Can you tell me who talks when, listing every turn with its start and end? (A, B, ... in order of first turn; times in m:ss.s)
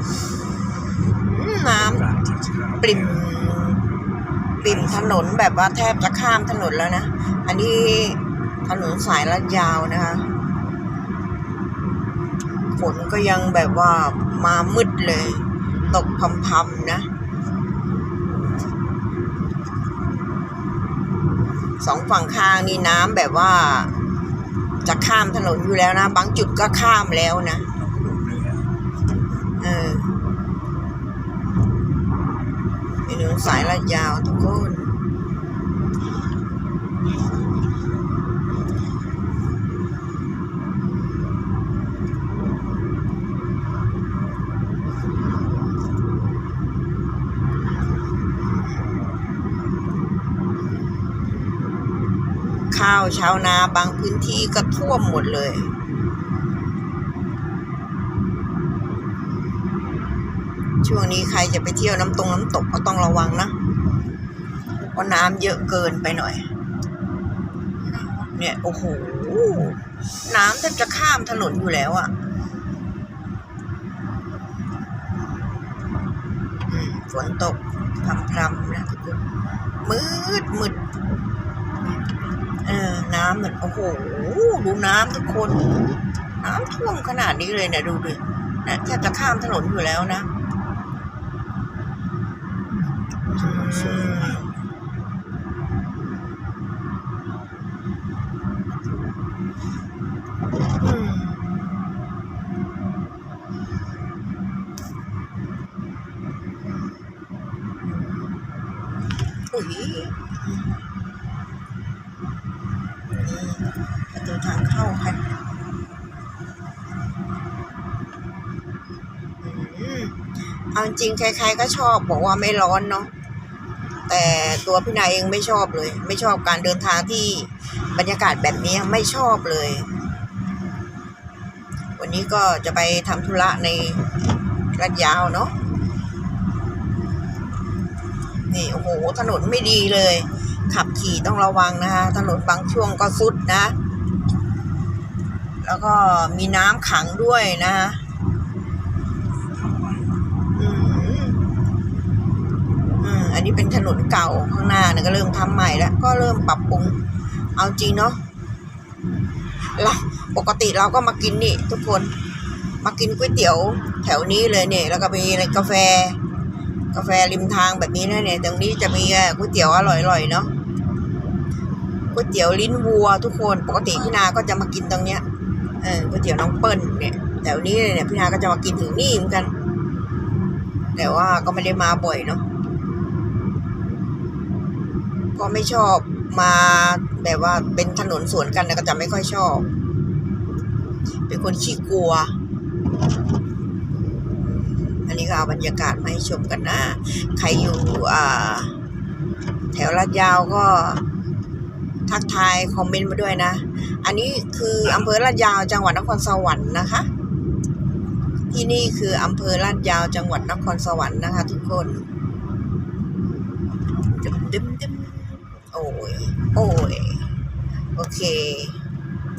0:01.1-0:02.1 A
0:02.0-0:03.2 B
0:02.8-0:03.9 A
0:04.6-0:10.3 A
0:12.8-0:17.1 A
0:21.8-0:23.9 A
0:24.8-0:27.7 A
0:27.8-0:28.7 B
0:29.6-0:30.2 A
0:33.1-0:34.9 A
0:52.7-0:55.7 A
1:00.8-1:03.6 A
1:04.9-1:06.5 A
1:08.0-1:12.1 A
1:16.7-1:19.2 A
1:19.8-1:20.8 A
1:22.6-1:25.8 A
1:26.4-1:30.3 A
1:33.3-1:34.5 A
1:34.0-1:34.5 B
1:40.8-1:41.7 A
1:47.8-1:48.3 A
1:49.5-1:50.6 A
1:53.1-1:55.2 A
1:59.4-2:00.2 A
2:00.7-2:03.1 A
2:04.1-2:09.9 A
2:12.0-2:14.0 A
2:14.8-2:15.6 A
2:18.5-2:23.8 A
2:25.6-2:28.0 A
2:29.6-2:30.1 B
2:30.6-2:31.4 A
2:33.0-2:37.0 A
2:37.6-2:38.2 A
2:39.8-2:42.1 A
2:42.8-2:46.2 A
2:46.9-2:50.5 A
2:52.1-2:55.2 A
2:55.8-2:59.5 A
3:01.0-3:02.4 A
3:05.4-3:09.7 A
3:11.3-3:12.4 A
3:14.5-3:18.8 A
3:19.7-3:21.0 A
3:22.1-3:27.1 A
3:28.5-3:32.0 A
3:34.2-3:37.3 A
3:38.0-3:38.8 A